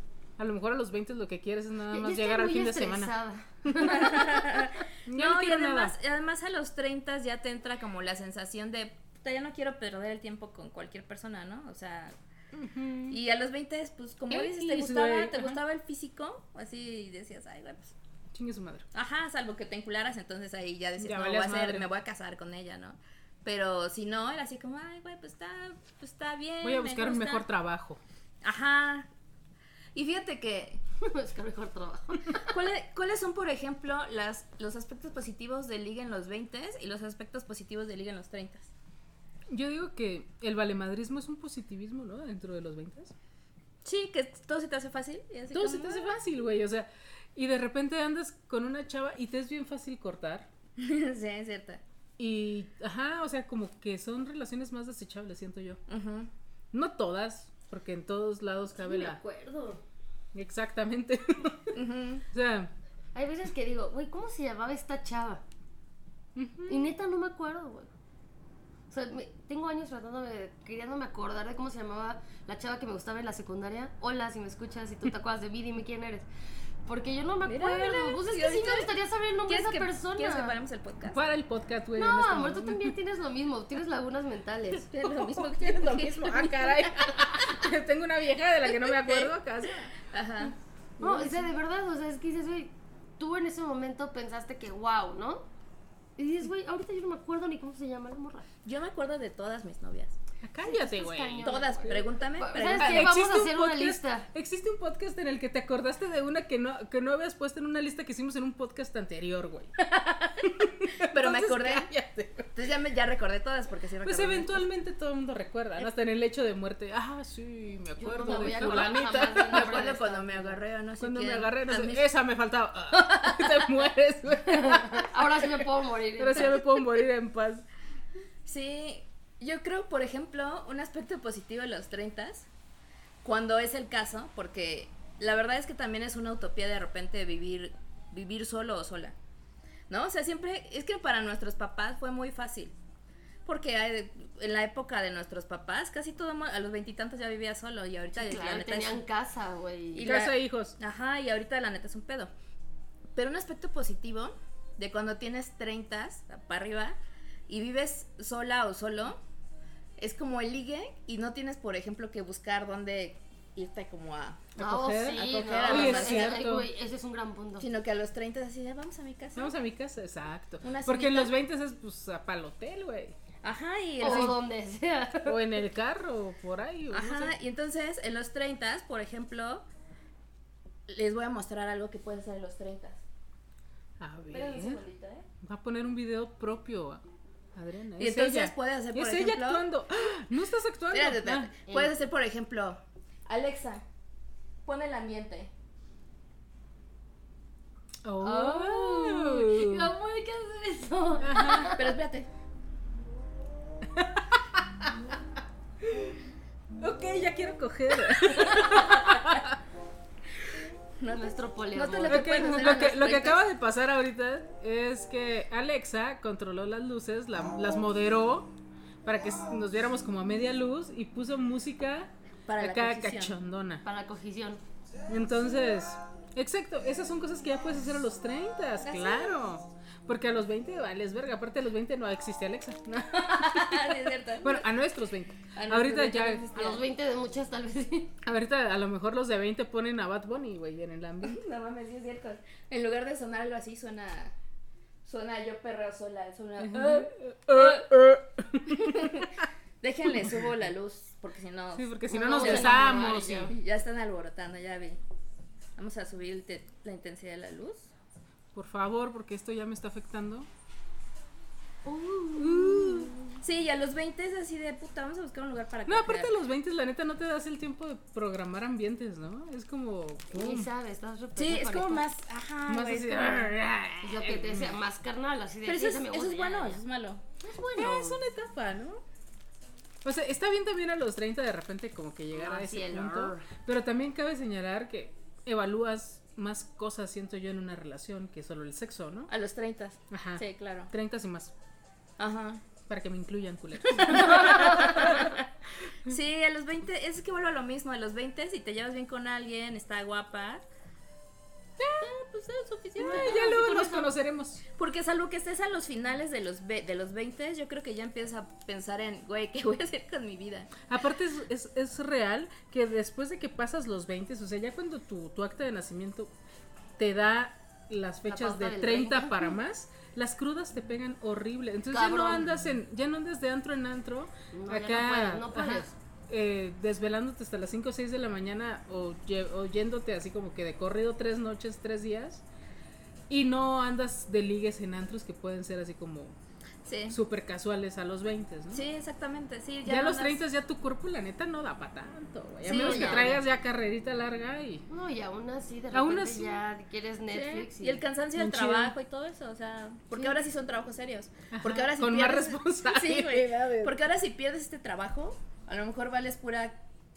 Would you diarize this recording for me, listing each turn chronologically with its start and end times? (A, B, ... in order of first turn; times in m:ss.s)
0:00.4-0:03.1 A
0:01.9-0:04.2 B
0:03.6-0:04.4 A
0:03.8-0:12.1 C
0:05.0-0:06.0 A
0:12.5-0:13.2 A
0:13.1-0:17.9 C
0:14.3-0:15.6 A
0:18.3-0:18.8 A
0:18.9-0:27.4 C
0:21.0-0:21.9 A
0:26.6-0:28.0 A
0:28.4-0:29.1 C
0:29.9-0:30.8 C
0:31.0-0:32.5 B
0:32.4-0:38.7 C
0:39.5-0:43.1 A
0:43.8-0:46.1 C
0:45.5-0:50.5 A
0:50.8-0:51.8 C
0:52.2-0:55.8 A
0:55.9-0:56.3 C
0:56.7-0:59.2 A
0:58.7-0:59.8 B
1:00.3-1:01.8 A
1:01.7-1:02.2 C
1:02.3-1:02.7 A
1:03.1-1:05.4 B
1:06.3-1:06.9 A
1:06.7-1:07.9 B
1:08.9-1:16.3 B
1:16.8-1:20.6 B
1:17.4-1:18.9 C
1:19.5-1:21.2 C
1:21.0-1:23.0 A
1:22.0-1:24.9 B
1:24.8-1:27.6 C
1:25.0-1:29.9 A
1:28.8-1:29.3 C
1:30.0-1:30.5 C
1:31.0-1:35.4 B
1:31.0-1:31.4 A
1:36.2-1:38.5 B
1:38.6-1:40.2 C
1:40.4-1:41.9 A
1:40.6-1:44.3 B
1:41.4-1:43.2 C
1:42.6-1:49.7 A
1:49.8-1:51.9 C
1:50.4-1:52.5 A
1:52.5-1:54.6 C
1:54.0-1:59.9 A
1:58.0-2:00.6 B
1:58.2-2:02.1 C
2:01.0-2:05.4 A
2:04.5-2:06.6 B
2:06.2-2:07.6 A
2:08.4-2:12.5 C
2:13.2-2:19.1 C
2:19.9-2:22.7 C
2:23.4-2:29.0 C
2:28.2-2:30.1 B
2:30.0-2:32.3 C
2:30.0-2:30.8 A
2:33.1-2:37.0 C
2:37.5-2:39.2 C
2:40.0-2:44.5 C
2:44.6-2:46.7 A
2:44.6-2:47.6 B
2:45.1-2:46.4 C
2:47.6-2:49.5 C
2:49.4-2:53.2 A
2:50.6-2:51.3 C
2:53.4-2:54.4 C
2:54.0-2:55.4 B
2:54.0-2:54.3 A
2:55.2-2:57.3 A
2:56.9-2:59.6 C
3:00.9-3:03.0 C
3:04.0-3:04.8 A
3:04.3-3:05.2 C
3:05.4-3:07.0 A
3:07.5-3:11.5 A
3:08.0-3:09.6 C
3:10.9-3:13.8 C
3:11.7-3:11.9 B
3:14.6-3:15.5 C
3:18.0-3:19.9 A
3:18.2-3:21.9 B
3:21.2-3:21.7 A
3:21.6-3:22.3 C
3:23.8-3:25.0 A
3:25.8-3:26.2 A
3:26.8-3:29.6 A
3:31.0-3:33.4 C
3:31.1-3:32.9 B
3:32.1-3:38.5 A
3:39.0-3:43.8 A
3:42.5-3:43.4 C
3:43.8-3:44.6 B
3:45.1-3:56.5 A
3:48.8-3:49.4 C
3:53.1-3:54.7 C
3:55.5-3:56.8 C
3:56.5-3:58.2 B
3:58.2-4:01.4 A
4:01.2-4:04.3 C
4:05.0-4:07.9 C
4:06.6-4:09.4 A
4:08.7-4:15.0 C
4:11.7-4:13.5 A
4:12.1-4:13.5 B
4:15.8-4:17.9 C
4:18.5-4:20.5 A
4:21.8-4:23.4 B
4:22.4-4:23.1 A
4:23.4-4:26.3 C
4:25.9-4:30.7 A
4:30.3-4:32.1 B
4:31.4-4:33.6 C
4:32.7-4:34.8 A
4:34.0-4:36.8 B
4:35.6-4:37.2 C
4:37.4-4:38.2 B
4:37.8-4:39.0 A
4:40.0-4:49.3 A
4:42.3-4:43.5 B
4:49.3-4:50.9 C
4:50.1-4:51.5 A
4:52.2-4:52.6 C
4:52.9-4:55.3 A
4:53.8-4:55.5 C
4:54.2-4:55.0 B
4:56.0-5:00.6 C
5:01.8-5:03.4 C
5:03.0-5:04.1 B
5:03.0-5:04.6 A
5:04.8-5:10.7 C
5:10.9-5:16.3 A
5:17.0-5:32.4 A
5:18.2-5:19.5 B
5:21.9-5:22.5 B
5:24.5-5:25.9 B
5:33.3-5:36.4 A
5:36.8-5:37.2 C
5:37.1-5:38.8 A
5:38.7-5:40.4 C
5:39.8-5:44.8 A
5:42.6-5:43.4 C
5:42.7-5:43.4 B
5:44.9-5:48.0 B
5:45.9-5:46.6 A
5:47.3-5:56.8 C
5:48.3-5:48.9 A
5:51.5-5:54.0 A